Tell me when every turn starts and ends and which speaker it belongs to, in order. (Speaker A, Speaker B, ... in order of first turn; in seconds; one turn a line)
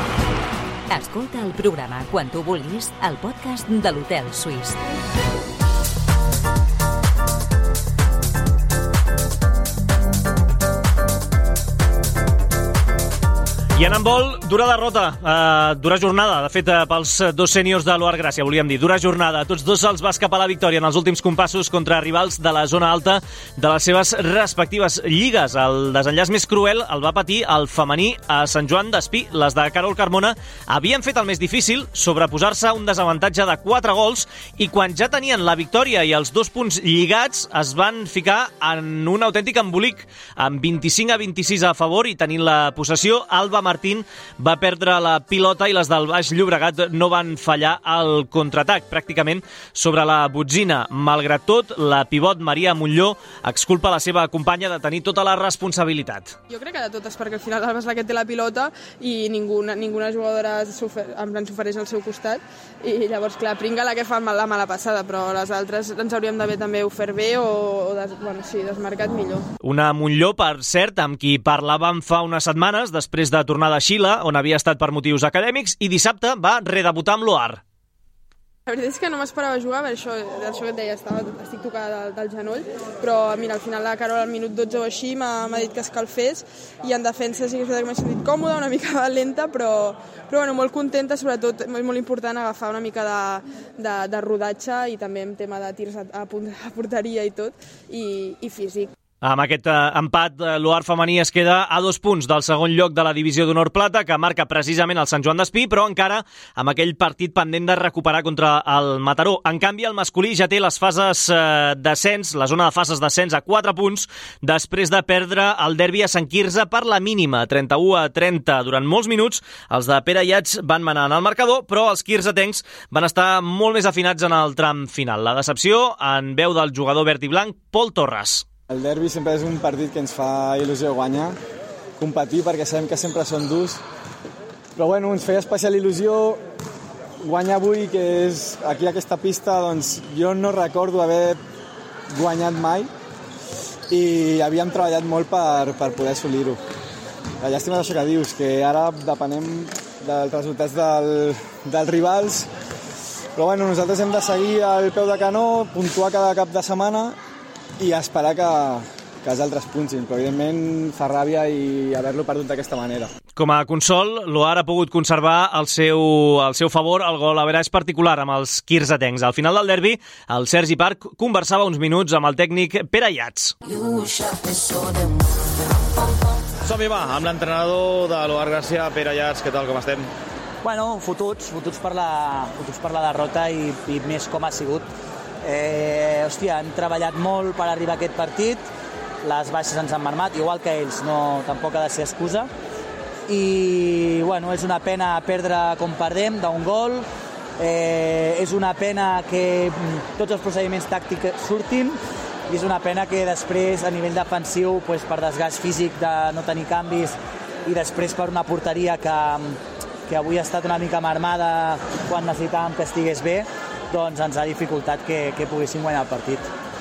Speaker A: 0.9-4.8
Speaker B: 13.8-56.4
Speaker C: 56.5-69.5
Speaker B: 69.6-77.6
Speaker C: 78.7-98.9
Speaker B: 99.2-128.4
Speaker D: 128.7-131.4
Speaker D: 132.0-133.8
Speaker D: 134.8-136.4
Speaker D: 137.2-141.4
Speaker D: 142.1-142.9
Speaker D: 143.9-146.6
Speaker D: 147.4-152.5
Speaker D: 153.3-157.2
Speaker D: 157.8-163.1
Speaker B: 163.4-173.6
Speaker E: 176.6-180.1
Speaker F: 180.6-184.9
Speaker F: 185.4-188.6
Speaker F: 189.2-192.5
Speaker F: 193.3-197.1
Speaker F: 197.6-202.0
Speaker F: 202.5-207.2
Speaker F: 207.7-216.5